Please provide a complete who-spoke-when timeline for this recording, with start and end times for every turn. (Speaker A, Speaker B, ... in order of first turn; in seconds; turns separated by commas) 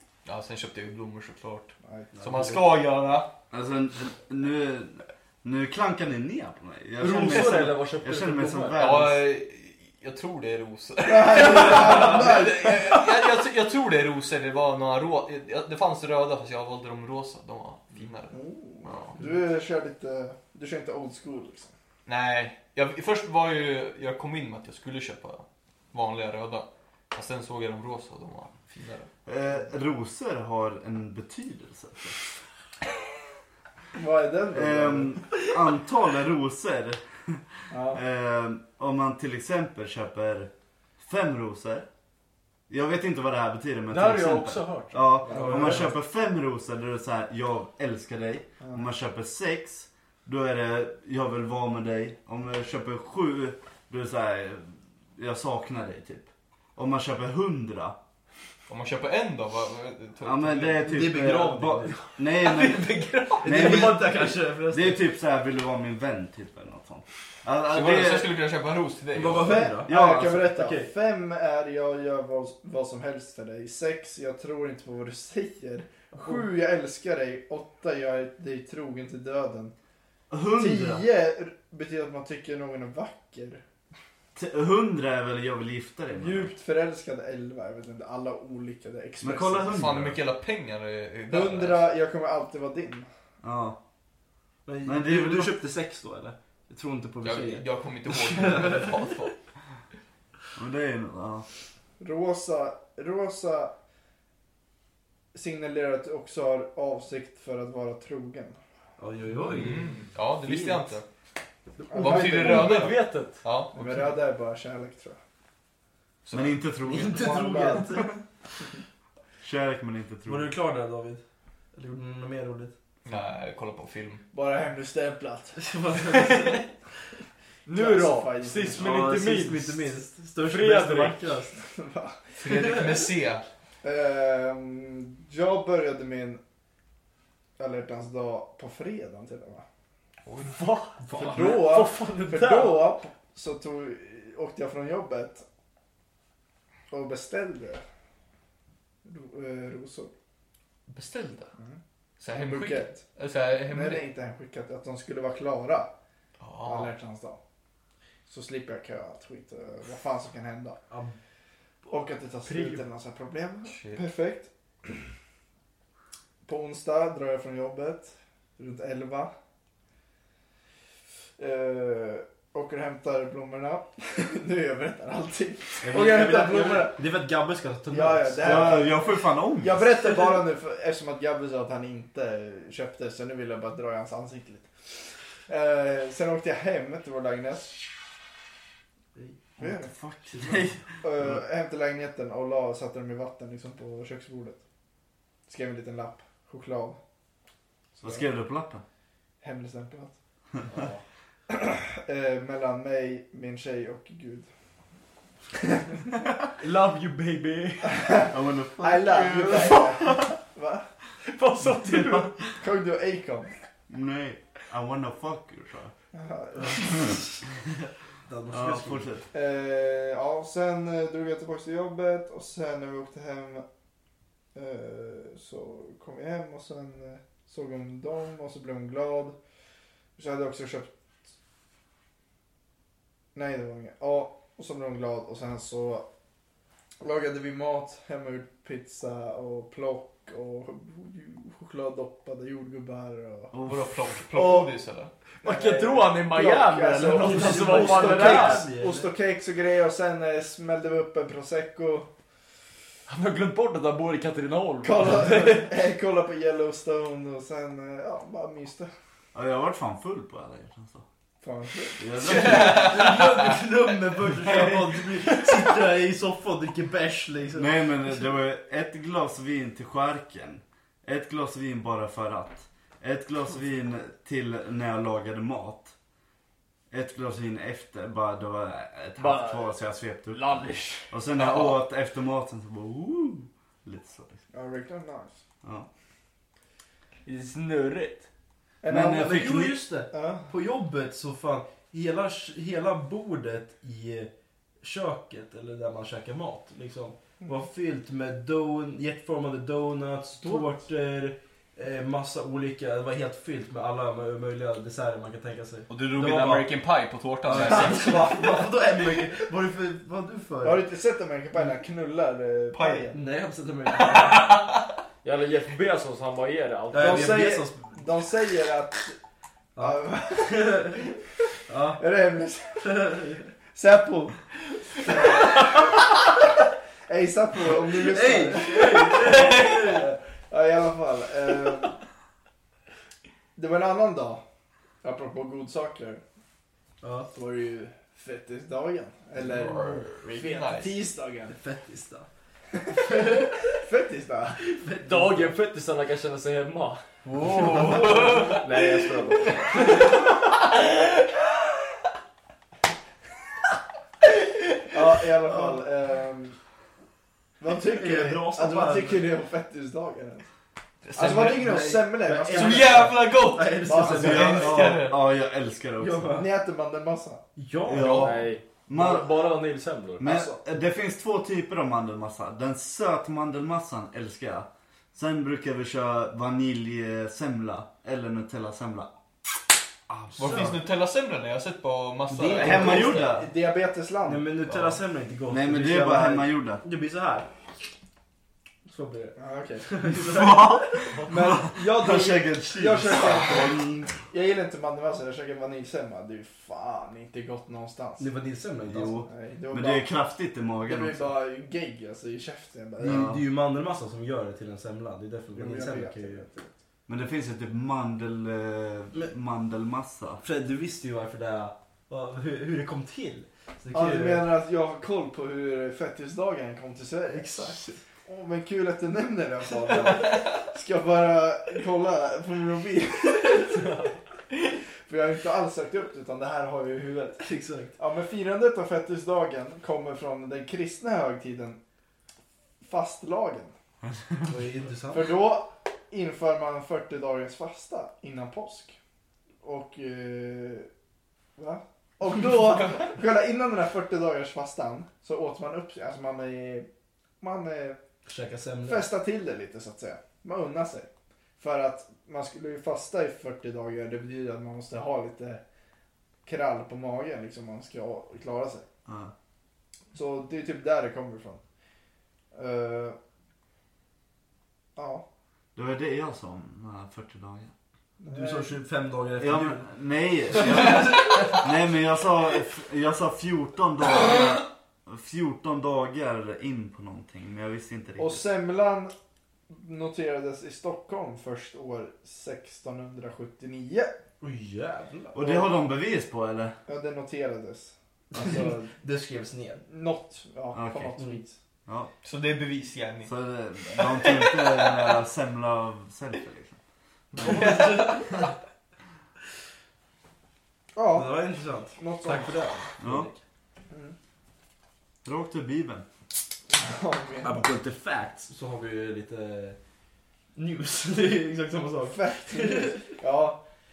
Speaker A: 0.2-3.3, Speaker B: 1.8-2.1, Speaker C: 2.1-2.6, Speaker D: 3.5-9.2, Speaker E: 7.0-8.9, Speaker A: 8.7-19.2, Speaker B: 11.0-13.0, Speaker B: 18.3-21.7, Speaker A: 22.1-29.1, Speaker D: 29.2-32.2, Speaker B: 33.9-35.2, Speaker D: 34.5-41.9, Speaker B: 37.7-38.0, Speaker D: 42.7-58.0, Speaker E: 43.9-45.6, Speaker B: 45.3-45.8, Speaker C: 45.3-45.9, Speaker A: 58.7-61.0, Speaker D: 60.2-68.3, Speaker C: 60.8-62.2, Speaker A: 62.4-63.7, Speaker C: 63.4-65.0, Speaker A: 67.7-69.6, Speaker C: 69.1-70.9, Speaker B: 69.3-79.7, Speaker D: 69.8-70.5, Speaker D: 80.3-81.0, Speaker B: 80.5-83.6, Speaker D: 84.3-86.5, Speaker B: 86.1-89.7, Speaker D: 89.2-90.2, Speaker A: 89.7-91.9, Speaker B: 91.3-93.1, Speaker D: 93.4-93.8, Speaker C: 94.7-98.9, Speaker D: 94.8-95.5, Speaker A: 97.2-99.3, Speaker D: 100.5-101.5, Speaker B: 102.0-103.7, Speaker B: 105.3-108.6, Speaker C: 109.0-110.9, Speaker A: 109.5-111.0, Speaker E: 111.8-113.4, Speaker B: 111.9-112.9, Speaker A: 111.9-113.8, Speaker B: 113.7-115.2, Speaker A: 116.2-116.6, Speaker D: 116.3-117.4, Speaker C: 116.8-118.2, Speaker B: 117.0-118.1, Speaker D: 119.4-120.5, Speaker C: 120.2-121.2, Speaker C: 121.7-122.7, Speaker A: 123.0-124.2, Speaker B: 124.3-125.6, Speaker C: 125.6-126.7, Speaker E: 127.7-129.8, Speaker B: 127.7-128.8, Speaker C: 128.7-131.6, Speaker E: 130.4-131.3, Speaker B: 131.6-132.4, Speaker A: 132.4-133.4, Speaker C: 132.5-132.8, Speaker B: 133.8-136.4, Speaker B: 137.6-139.6, Speaker E: 140.2-142.9, Speaker C: 141.0-141.7, Speaker B: 141.1-145.4, Speaker B: 146.9-147.8, Speaker B: 149.0-150.1, Speaker A: 150.9-151.5, Speaker A: 152.2-154.0, Speaker B: 152.3-153.0, Speaker B: 153.7-155.9, Speaker A: 156.4-156.9, Speaker B: 156.6-157.4, Speaker B: 158.3-160.8, Speaker C: 160.9-161.1, Speaker B: 161.8-164.5, Speaker E: 162.4-162.8, Speaker A: 163.7-164.0, Speaker B: 166.4-169.3, Speaker B: 171.4-177.0, Speaker C: 175.8-178.9, Speaker B: 177.9-184.9, Speaker D: 178.4-180.0, Speaker B: 185.4-187.8, Speaker C: 189.1-189.5, Speaker B: 189.6-189.9, Speaker D: 189.6-191.4, Speaker C: 190.3-190.7, Speaker B: 191.0-194.6, Speaker B: 195.5-197.0, Speaker B: 198.0-198.2, Speaker D: 198.0-198.8, Speaker B: 199.4-200.1, Speaker E: 200.7-201.0, Speaker B: 201.5-204.5, Speaker B: 205.8-206.0, Speaker E: 206.6-208.1, Speaker B: 207.8-210.9, Speaker D: 208.3-209.8, Speaker E: 209.5-210.0, Speaker E: 211.2-212.3, Speaker B: 212.4-213.5, Speaker D: 213.9-215.9, Speaker B: 216.1-217.2, Speaker C: 216.6-217.4, Speaker C: 218.2-219.1, Speaker D: 218.5-219.2, Speaker B: 219.3-223.6, Speaker B: 224.5-229.4, Speaker B: 230.2-230.9, Speaker B: 233.3-236.1, Speaker B: 237.0-243.5, Speaker D: 243.5-244.1, Speaker A: 243.6-245.1, Speaker B: 244.3-244.7, Speaker E: 245.4-248.7, Speaker B: 245.4-252.1, Speaker C: 247.1-249.1, Speaker E: 253.1-255.7, Speaker B: 254.8-258.9, Speaker D: 259.3-261.0, Speaker B: 261.4-262.1, Speaker D: 262.0-263.0, Speaker A: 262.2-263.5, Speaker C: 262.3-267.8, Speaker A: 264.4-265.5, Speaker D: 267.5-275.9, Speaker D: 276.9-284.4, Speaker E: 279.2-281.1, Speaker A: 281.4-281.7, Speaker B: 284.5-285.4, Speaker D: 285.6-285.9, Speaker E: 287.2-288.3, Speaker B: 288.8-289.5, Speaker D: 288.9-289.8, Speaker C: 289.0-294.3, Speaker B: 290.1-290.5, Speaker C: 294.8-306.7, Speaker B: 300.4-300.8, Speaker A: 305.9-308.3, Speaker C: 307.4-310.8, Speaker B: 307.5-308.6, Speaker B: 310.6-313.2, Speaker A: 312.7-313.1, Speaker C: 313.1-314.5, Speaker A: 313.9-314.9, Speaker E: 315.2-317.5, Speaker C: 316.9-318.0, Speaker B: 316.9-319.2, Speaker C: 319.7-321.0, Speaker B: 319.8-321.2, Speaker C: 321.7-322.0, Speaker B: 321.9-326.0, Speaker C: 322.8-323.5, Speaker B: 327.1-332.0, Speaker C: 327.8-330.1, Speaker A: 329.1-329.9, Speaker B: 333.6-334.4, Speaker B: 335.0-336.2, Speaker C: 337.0-337.3, Speaker B: 337.3-341.5, Speaker A: 339.4-341.0, Speaker C: 341.5-342.3, Speaker B: 342.8-344.6, Speaker C: 343.0-343.7, Speaker C: 344.6-345.5, Speaker E: 345.0-349.9, Speaker A: 347.2-348.6, Speaker A: 349.4-351.2, Speaker A: 354.3-354.6, Speaker B: 354.9-356.6, Speaker C: 355.5-355.8, Speaker B: 357.6-360.4, Speaker C: 357.7-359.3, Speaker A: 361.0-361.6, Speaker B: 361.1-363.3, Speaker C: 361.2-364.8, Speaker A: 362.5-365.2, Speaker B: 363.8-364.8, Speaker D: 364.2-366.4, Speaker C: 366.0-366.5, Speaker B: 366.3-367.4, Speaker C: 367.6-368.3, Speaker D: 367.8-369.3, Speaker A: 367.9-368.4, Speaker E: 368.1-370.2, Speaker D: 370.2-379.1, Speaker B: 370.2-370.6, Speaker D: 380.1-380.8, Speaker A: 380.4-383.3, Speaker C: 380.4-380.7, Speaker C: 382.3-383.3, Speaker D: 382.5-383.5, Speaker B: 382.6-384.5, Speaker C: 384.2-387.5, Speaker D: 385.5-386.8, Speaker C: 388.9-391.1, Speaker B: 389.4-390.0, Speaker D: 390.1-394.1, Speaker B: 391.2-398.3, Speaker C: 398.2-399.3, Speaker D: 398.9-401.3, Speaker B: 399.2-400.1, Speaker B: 400.8-403.3, Speaker C: 403.0-406.4, Speaker D: 403.0-403.4, Speaker B: 405.5-406.7, Speaker D: 407.1-410.4, Speaker C: 410.4-414.5, Speaker B: 413.9-424.1, Speaker C: 417.3-418.0, Speaker B: 425.0-427.4, Speaker C: 427.4-427.9, Speaker B: 428.0-431.8, Speaker B: 432.8-433.7, Speaker C: 434.4-435.4, Speaker B: 435.1-439.0, Speaker B: 439.6-440.9, Speaker B: 441.6-446.9, Speaker B: 447.4-448.0, Speaker C: 448.2-449.1, Speaker B: 448.8-451.1, Speaker B: 451.6-455.6, Speaker B: 456.4-458.9, Speaker D: 459.1-459.3, Speaker B: 460.1-461.6, Speaker B: 462.5-463.1, Speaker B: 464.9-465.2, Speaker D: 465.7-467.7, Speaker B: 468.2-468.8, Speaker C: 468.3-469.9, Speaker D: 469.4-478.4, Speaker C: 470.5-471.6, Speaker B: 478.2-479.1, Speaker B: 479.7-484.1, Speaker C: 484.4-485.4, Speaker D: 485.3-486.8, Speaker B: 485.4-485.7, Speaker B: 486.9-488.9, Speaker C: 488.3-489.8, Speaker B: 489.9-491.6, Speaker D: 490.7-491.1, Speaker D: 491.9-492.1, Speaker A: 492.2-493.3, Speaker D: 493.2-496.8, Speaker A: 493.8-495.2, Speaker A: 497.3-498.4, Speaker C: 497.4-498.4, Speaker B: 500.9-502.6, Speaker C: 501.1-503.4, Speaker D: 503.0-503.3, Speaker B: 503.9-504.1, Speaker D: 505.2-506.1, Speaker B: 506.7-507.7, Speaker C: 507.4-509.8, Speaker C: 510.6-513.1, Speaker B: 512.0-513.6